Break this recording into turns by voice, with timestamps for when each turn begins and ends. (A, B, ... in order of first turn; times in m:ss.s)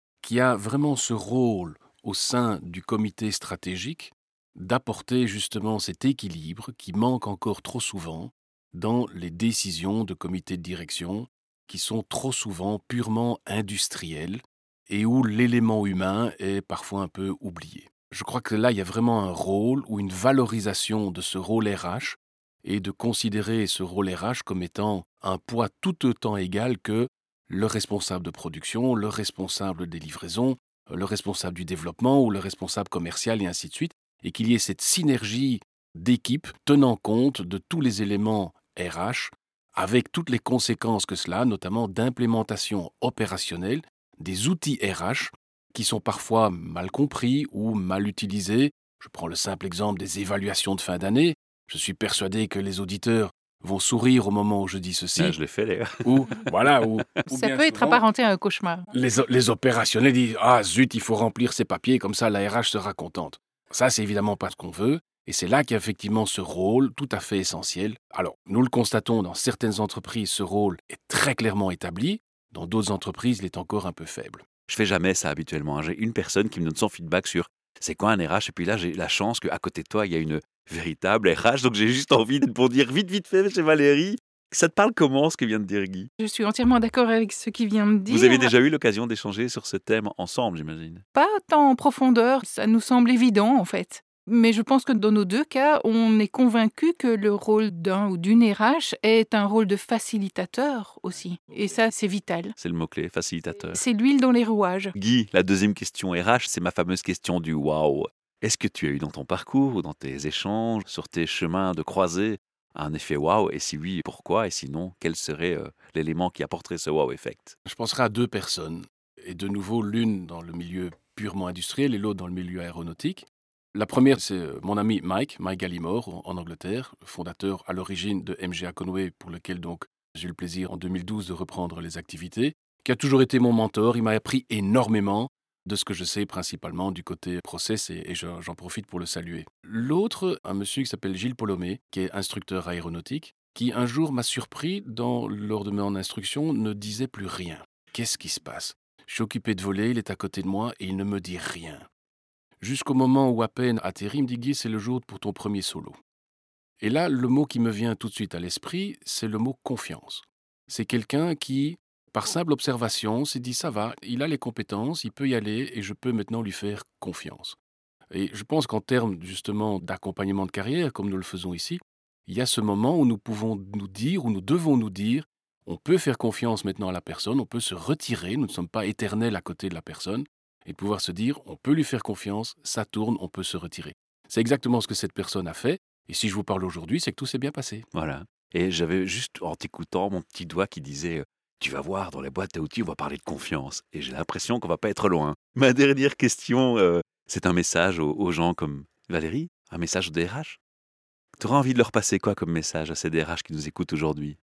0:00.2-0:55.4 A
0:55.2-0:57.2 B
0:56.0-0:58.0 A
0:57.3-0:58.9 C
0:58.9-1:14.4 A
1:14.7-1:26.1 B
1:26.2-1:28.5 C
1:28.1-1:31.0 B
1:31.2-1:42.5 C
1:42.6-1:43.8 B
1:43.7-1:44.9 C
1:45.0-1:57.6 B
1:57.6-2:31.9 A
2:32.6-2:36.0 A
2:36.8-2:47.6 A
2:48.1-3:07.9 A
3:07.9-3:20.6 B
3:21.4-3:24.4 B